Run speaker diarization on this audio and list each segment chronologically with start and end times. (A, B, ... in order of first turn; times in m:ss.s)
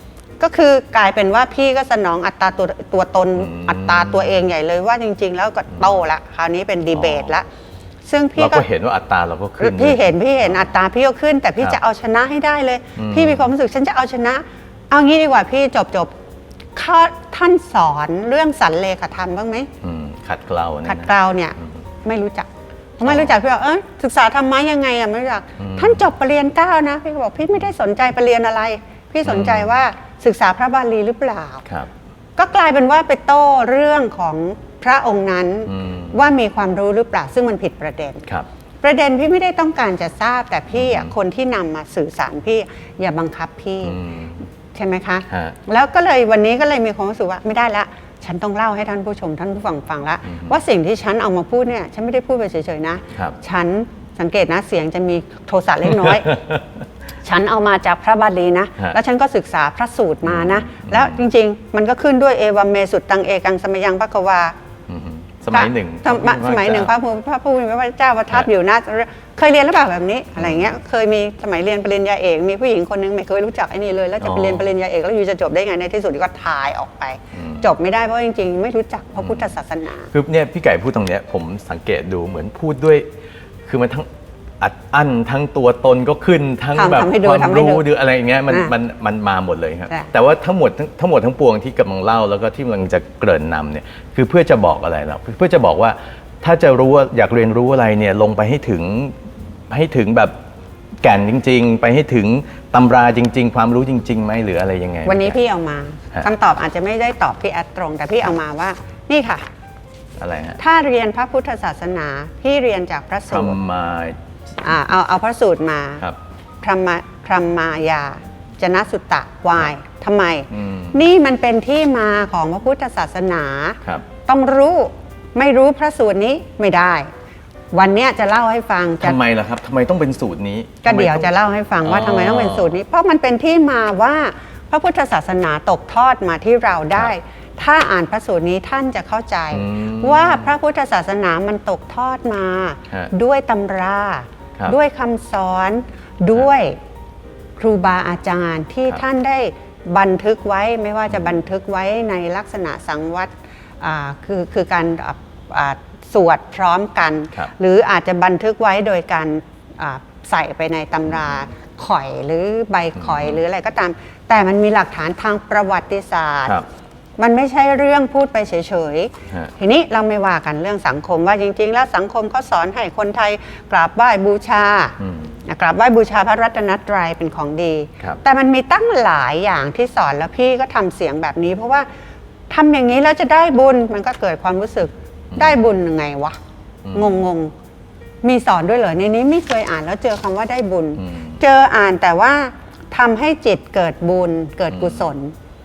0:00.4-0:07.5 A
0:03.4-0:04.4 B
0:06.9-0:07.3 B
0:08.0-0:08.6 A
0:08.4-0:10.7 B
0:09.6-0:16.1 A
0:13.0-0:13.5 B
0:16.8-0:19.7 A
0:19.8-0:21.6 B
0:20.9-0:22.5 A
0:23.0-0:31.6 A
0:23.0-0:23.3 B
0:25.6-0:26.0 B
0:29.2-0:29.7 B
0:32.4-0:38.3 A
0:35.7-0:36.2 B
0:38.8-0:44.0 A
0:40.7-0:41.1 B
0:43.8-0:44.4 B
0:44.7-0:56.4 A
0:45.3-0:45.6 B
0:50.3-0:50.5 B
0:55.9-0:56.6 B
0:57.2-1:04.6 A
1:00.2-1:01.2 B
1:04.9-1:06.9 B
1:05.5-1:20.1 A
1:10.4-1:10.7 B
1:14.2-1:14.7 B
1:17.3-1:17.7 B
1:20.1-1:23.1 B
1:23.7-1:24.1 B
1:24.6-1:39.2 B
1:26.8-1:27.9 A
1:39.7-1:40.4 B
1:41.0-1:45.4 B
1:45.1-1:49.4 A
1:50.2-1:50.6 B
1:50.6-1:53.6 A
1:53.3-1:54.2 B
1:54.6-1:56.0 A
1:56.6-2:07.1 A
2:00.5-2:01.0 B
2:07.7-2:09.2 A
2:09.0-2:11.3 B
2:10.8-2:26.8 A
2:11.8-2:12.8 B
2:19.5-2:20.5 B
2:27.6-2:46.6 A
2:43.0-2:43.4 B
2:47.2-3:01.9 A
2:55.0-2:55.4 B
3:02.5-3:06.4 A
3:05.3-3:05.6 B
3:06.8-3:07.2 B
3:06.9-3:07.5 A
3:08.2-3:15.3 A
3:11.0-3:11.4 B
3:14.7-3:15.1 B